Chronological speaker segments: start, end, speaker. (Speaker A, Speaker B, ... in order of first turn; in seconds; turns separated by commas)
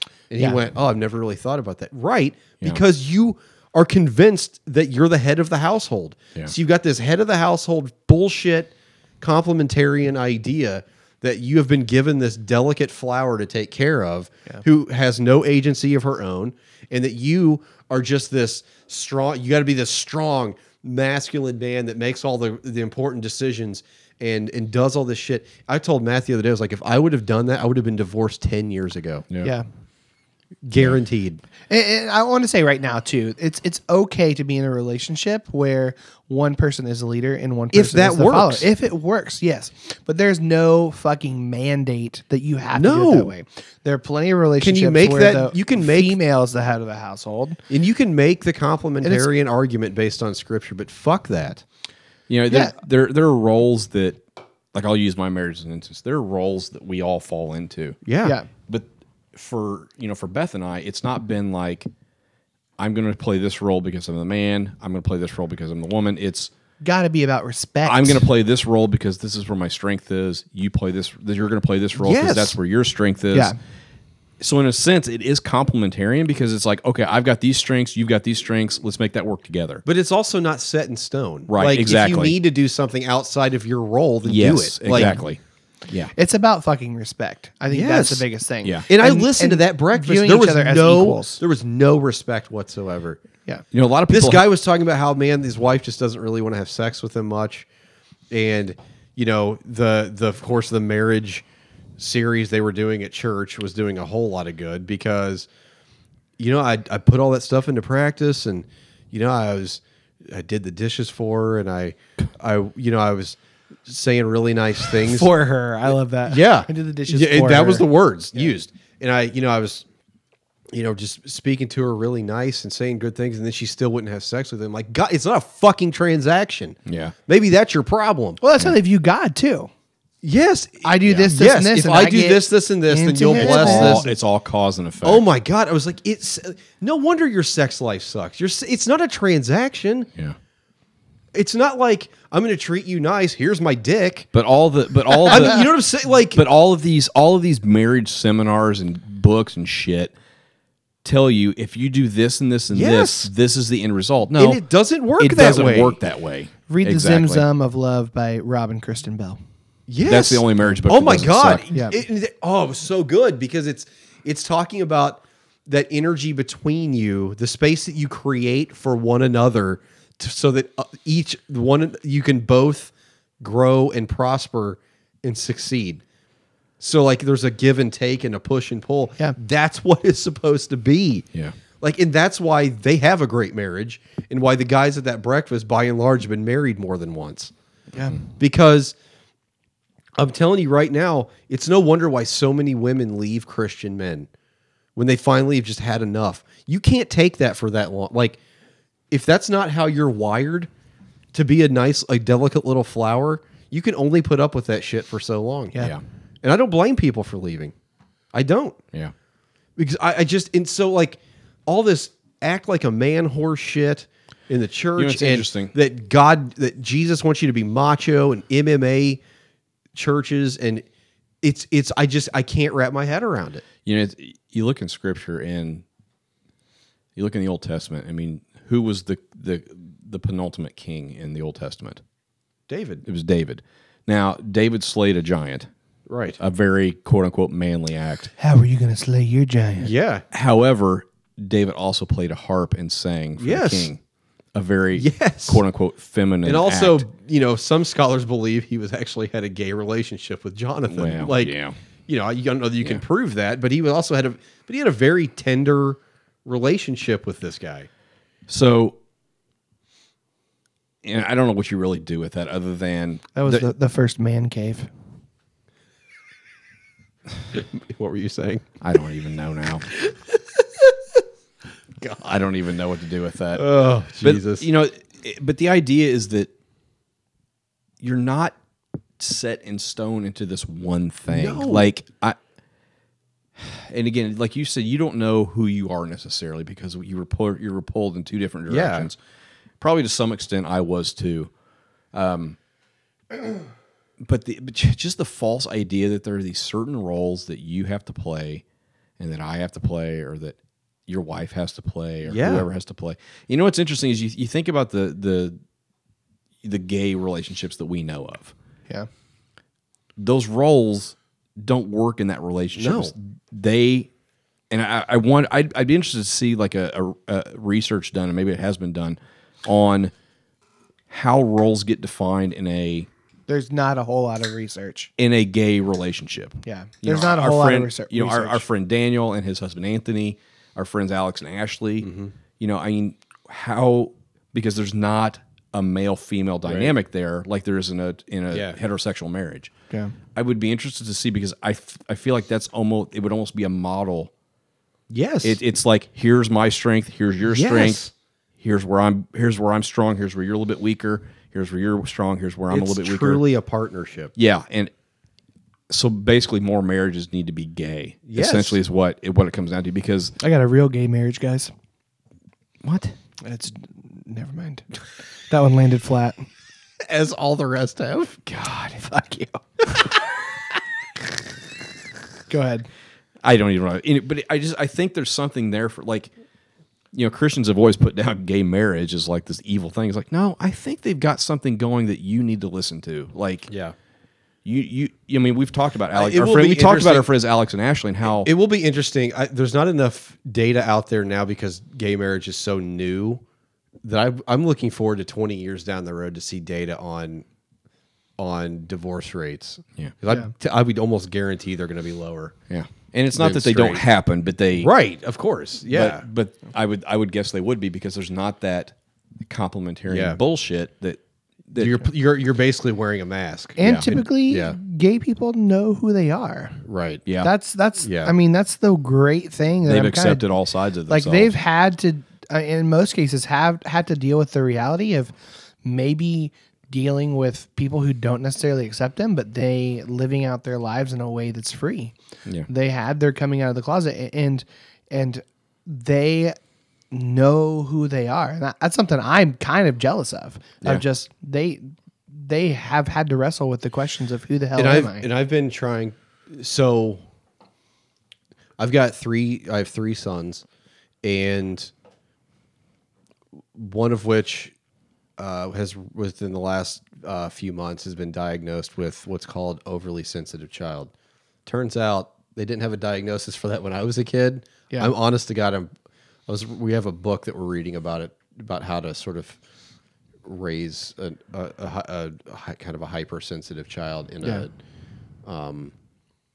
Speaker A: 0.3-29.2, Speaker A: 30.6-31.4, Speaker B: 31.7-47.6, Speaker A: 37.7-38.7, Speaker A: 42.7-43.3, Speaker A: 44.6-46.2, Speaker A: 47.7-51.6, Speaker B: 49.0-49.3, Speaker C: 52.3-54.2, Speaker C: 54.7-58.0, Speaker A: 58.0-58.4, Speaker C: 58.7-61.9, Speaker C: 62.8-66.5, Speaker B: 66.8-68.2, Speaker C: 67.8-73.5, Speaker A: 72.0-72.5, Speaker C: 74.4-79.8, Speaker A: 79.8-85.2, Speaker C: 81.5-82.3, Speaker C: 84.2-86.1, Speaker B: 84.9-85.2, Speaker B: 86.1-91.4, Speaker A: 87.7-88.2, Speaker A: 88.9-93.2, Speaker C: 93.7-94.5, Speaker A: 94.1-97.7, Speaker A: 98.3-101.4, Speaker A: 102.0-105.5, Speaker A: 106.4-115.3, Speaker B: 115.0-118.5, Speaker A: 116.2-119.8, Speaker A: 120.7-128.4, Speaker C: 126.8-127.1, Speaker B: 128.4-129.7, Speaker A: 130.2-134.0, Speaker B: 130.8-134.1, Speaker C: 133.3-135.2, Speaker A: 135.0-140.1, Speaker A: 141.3-144.3, Speaker C: 144.3-145.7, Speaker A: 145.2-146.4, Speaker C: 146.3-150.1, Speaker C: 151.0-154.6, Speaker A: 152.7-153.3, Speaker A: 154.3-156.0, Speaker C: 155.2-157.4, Speaker B: 156.7-159.4, Speaker A: 159.9-176.0, Speaker C: 160.0-161.6, Speaker A: 176.8-181.3, Speaker A: 181.8-187.5, Speaker B: 187.9-188.2, Speaker A: 188.4-188.9, Speaker A: 190.2-194.3, Speaker A: 194.9-198.4, Speaker A: 199.1-200.7, Speaker A: 201.3-205.9, Speaker A: 206.4-207.7, Speaker A: 208.3-208.8, Speaker A: 209.8-219.2, Speaker C: 214.9-215.7, Speaker A: 219.9-220.8, Speaker A: 221.4-223.7, Speaker C: 223.8-225.8, Speaker C: 227.2-232.0, Speaker A: 232.7-233.0, Speaker C: 233.0-235.7, Speaker A: 236.1-236.4, Speaker C: 236.4-238.3, Speaker B: 238.4-239.9, Speaker A: 239.8-240.2, Speaker C: 240.3-244.0, Speaker A: 243.4-243.9, Speaker C: 244.5-247.0, Speaker A: 244.9-245.6, Speaker A: 246.4-251.5, Speaker C: 250.9-251.8, Speaker A: 252.1-257.9, Speaker C: 258.5-259.0, Speaker C: 261.0-263.7, Speaker B: 263.3-264.9, Speaker A: 267.5-268.7, Speaker C: 268.8-269.9, Speaker A: 269.9-271.0, Speaker A: 272.0-272.3, Speaker C: 272.2-273.6, Speaker A: 273.5-274.7, Speaker C: 274.2-276.5, Speaker C: 278.0-278.5, Speaker C: 279.2-282.4, Speaker A: 281.3-281.9, Speaker C: 283.6-289.2, Speaker A: 288.7-289.1, Speaker C: 289.8-291.5, Speaker C: 292.1-292.6, Speaker C: 294.2-298.6, Speaker C: 299.2-305.6, Speaker A: 302.2-302.7, Speaker C: 306.6-308.5, Speaker C: 310.2-314.1, Speaker A: 312.7-313.1, Speaker C: 314.7-320.1, Speaker C: 321.1-323.1, Speaker B: 323.5-325.1, Speaker C: 325.2-332.1, Speaker B: 326.6-328.6, Speaker A: 332.0-332.3, Speaker C: 332.6-339.7, Speaker A: 336.6-336.9, Speaker A: 338.5-338.8, Speaker C: 340.3-344.3, Speaker A: 345.1-345.6, Speaker C: 345.4-348.1, Speaker A: 347.5-348.1, Speaker C: 348.6-353.4, Speaker A: 352.7-354.3, Speaker C: 354.4-354.9, Speaker C: 355.9-360.4, Speaker A: 358.2-358.8, Speaker B: 360.4-361.7, Speaker C: 362.8-363.1, Speaker B: 363.4-364.9, Speaker B: 365.5-366.4, Speaker A: 367.0-368.4, Speaker C: 368.4-369.0, Speaker B: 369.0-369.6, Speaker B: 372.5-372.9, Speaker C: 373.4-376.3, Speaker C: 377.1-383.7, Speaker A: 383.7-383.9, Speaker C: 384.6-388.5, Speaker A: 386.1-387.3, Speaker A: 388.3-393.4, Speaker A: 394.0-397.4, Speaker A: 398.4-402.6, Speaker C: 402.7-404.9, Speaker A: 403.3-404.0, Speaker A: 404.8-406.2, Speaker C: 405.9-412.0, Speaker A: 410.1-410.4, Speaker A: 411.8-414.8, Speaker B: 413.8-416.8, Speaker C: 413.8-414.1, Speaker A: 416.9-417.2, Speaker C: 417.2-417.5, Speaker B: 417.4-420.4, Speaker A: 418.0-418.3, Speaker C: 419.9-421.5, Speaker B: 421.1-432.1, Speaker B: 432.7-436.6, Speaker B: 437.1-445.3, Speaker A: 444.8-447.2, Speaker A: 448.8-450.6, Speaker A: 451.2-451.9, Speaker A: 453.7-454.7, Speaker A: 455.4-461.1, Speaker A: 461.6-465.9, Speaker A: 466.5-469.6, Speaker A: 470.4-474.7, Speaker A: 475.4-475.9